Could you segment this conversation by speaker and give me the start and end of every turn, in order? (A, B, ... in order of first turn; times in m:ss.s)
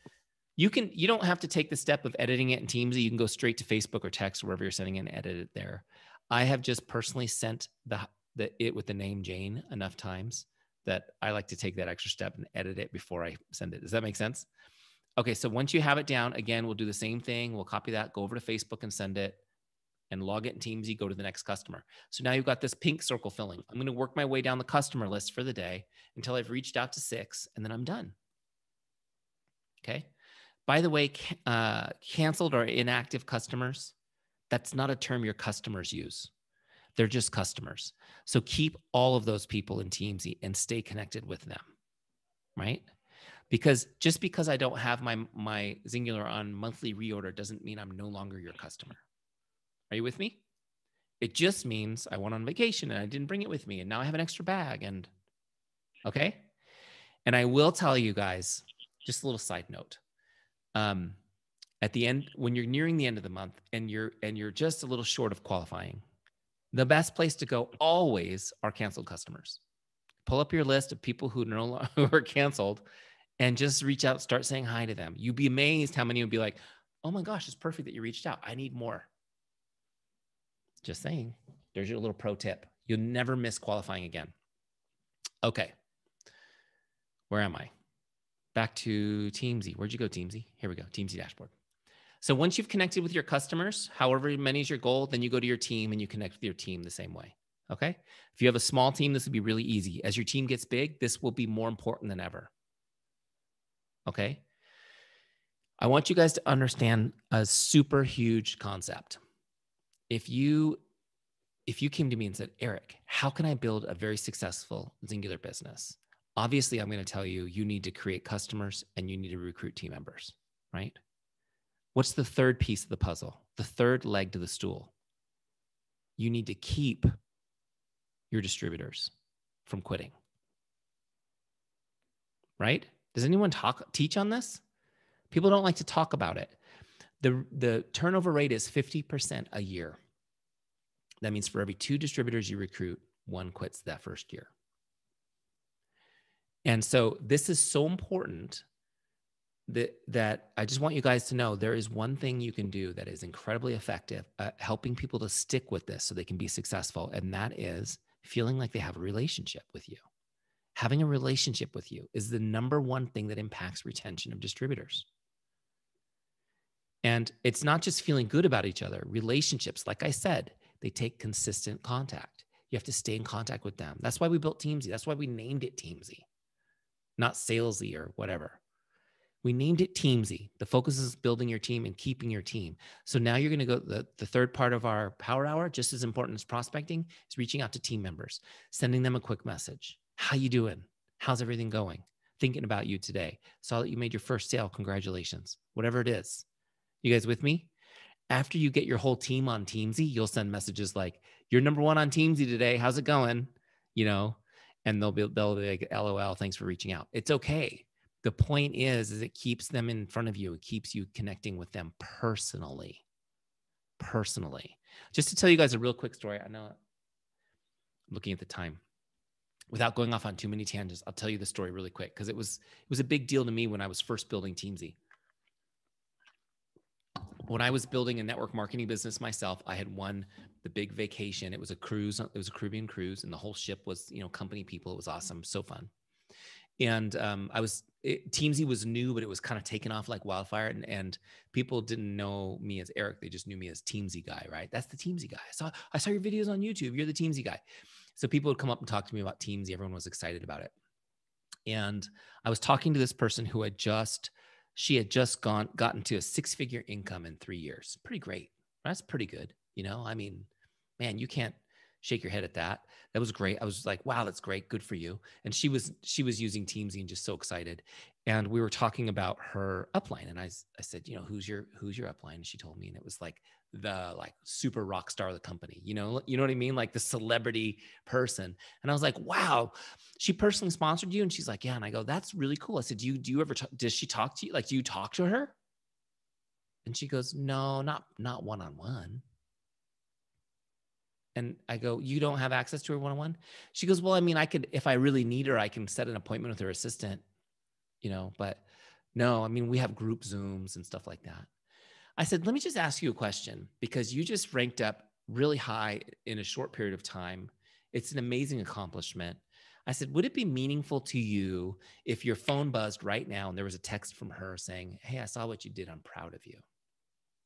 0:00.6-0:14.5 A
0:15.2-0:19.4 A
0:20.1-0:28.1 A
0:29.8-0:30.1 A
0:30.7-0:33.9 A
0:34.5-0:36.3 A
0:37.0-0:41.7 A
0:42.6-0:42.8 A
0:43.5-0:49.0 A
0:49.9-0:50.4 A
0:51.2-0:55.1 A
0:56.0-0:56.5 A
0:57.2-1:00.0 A
1:00.7-1:01.2 A
1:01.8-1:06.0 A
1:06.7-1:09.6 A
1:10.2-1:12.8 A
1:13.4-1:19.1 A
1:20.8-1:24.3 A
1:25.4-1:25.7 A
1:27.3-1:27.7 A
1:28.5-1:31.5 A
1:32.2-1:42.5 A
1:44.1-1:44.4 A
1:45.8-1:49.2 A
1:50.1-1:50.8 A
1:51.6-2:01.0 A
2:01.9-2:04.9 A
2:06.2-2:07.1 A
2:08.3-2:09.1 A
2:09.7-2:10.1 A
2:12.6-2:14.6 A
2:15.3-2:16.6 A
2:17.2-2:20.0 A
2:21.2-2:24.5 A
2:26.6-2:28.6 A
2:29.7-2:40.0 A
2:40.8-2:45.0 A
2:47.0-2:56.2 A
2:57.2-2:58.6 A
2:59.4-3:16.4 A
3:17.0-3:17.7 A
3:18.3-3:33.0 A
3:34.0-3:36.8 A
3:38.1-3:38.8 A
3:39.7-3:45.0 A
3:47.4-3:55.9 A
3:56.8-4:07.6 A
4:08.2-4:10.7 A
4:11.6-4:20.5 A
4:21.0-4:45.5 A
4:46.8-4:49.2 A
4:51.3-4:57.2 A
4:58.0-4:58.6 A
4:59.1-5:01.5 A
5:02.2-5:16.6 A